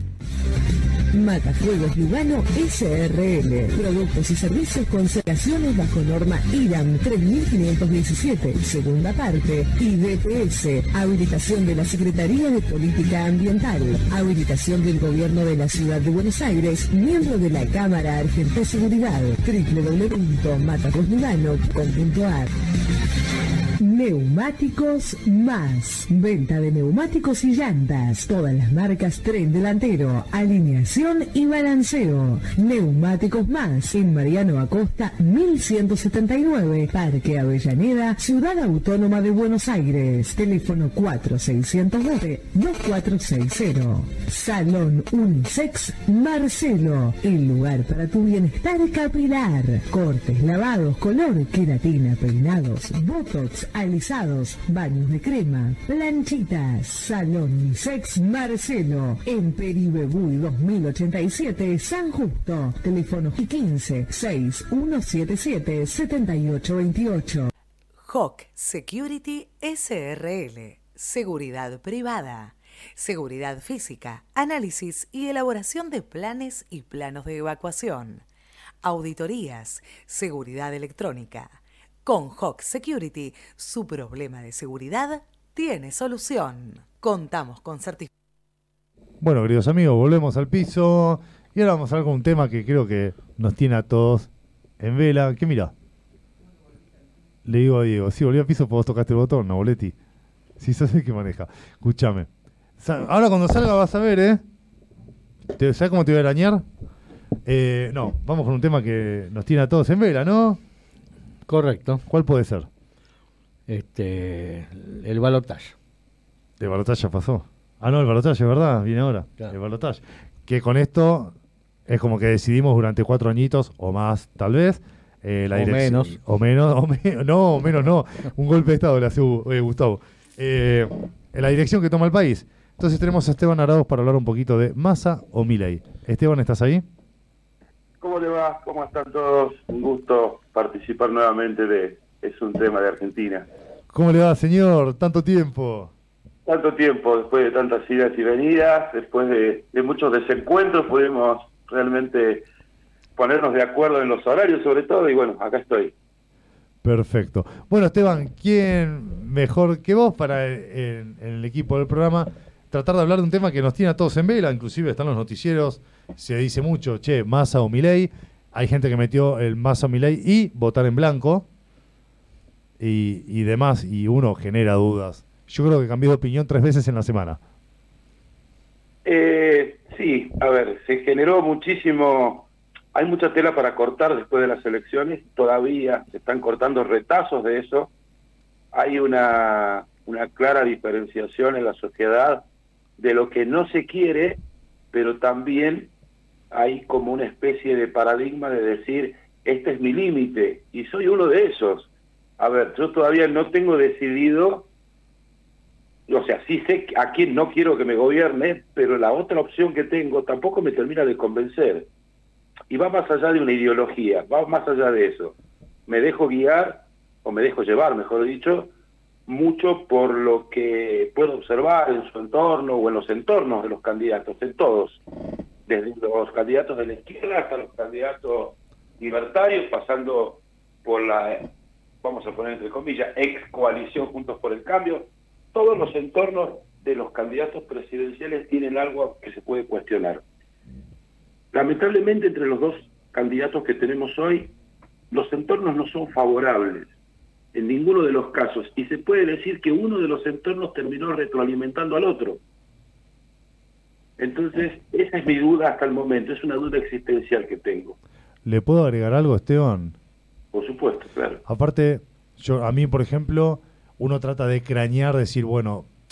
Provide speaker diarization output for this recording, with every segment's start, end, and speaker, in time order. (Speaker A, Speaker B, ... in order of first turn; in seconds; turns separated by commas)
Speaker A: 1.1-22.5, Speaker A: 23.8-67.5, Speaker B: 68.0-78.2, Speaker B: 78.8-88.1, Speaker C: 89.2-95.7, Speaker C: 97.4-99.9, Speaker C: 100.6-102.3, Speaker C: 102.8-104.4, Speaker C: 105.5-106.6, Speaker C: 107.5-110.6, Speaker D: 111.5-112.0, Speaker C: 112.1-112.7, Speaker D: 113.7-115.7, Speaker C: 116.6-121.3, Speaker C: 121.9-136.8, Speaker D: 125.5-126.1, Speaker E: 138.0-143.5, Speaker C: 143.9-145.9, Speaker E: 146.4-152.4, Speaker E: 153.2-155.9, Speaker C: 156.8-171.4, Speaker C: 172.8-177.4, Speaker E: 179.0-187.9, Speaker E: 188.7-192.4, Speaker E: 193.0-194.4, Speaker E: 194.9-195.9, Speaker E: 196.5-204.7, Speaker E: 206.1-211.9, Speaker E: 212.7-215.3, Speaker E: 215.9-218.7, Speaker E: 219.3-225.0, Speaker E: 225.7-231.5, Speaker E: 232.0-240.2, Speaker E: 241.5-244.5, Speaker E: 245.1-246.9, Speaker E: 247.5-252.4, Speaker E: 254.2-257.9, Speaker C: 258.4-259.9, Speaker E: 260.5-261.4, Speaker C: 261.4-265.9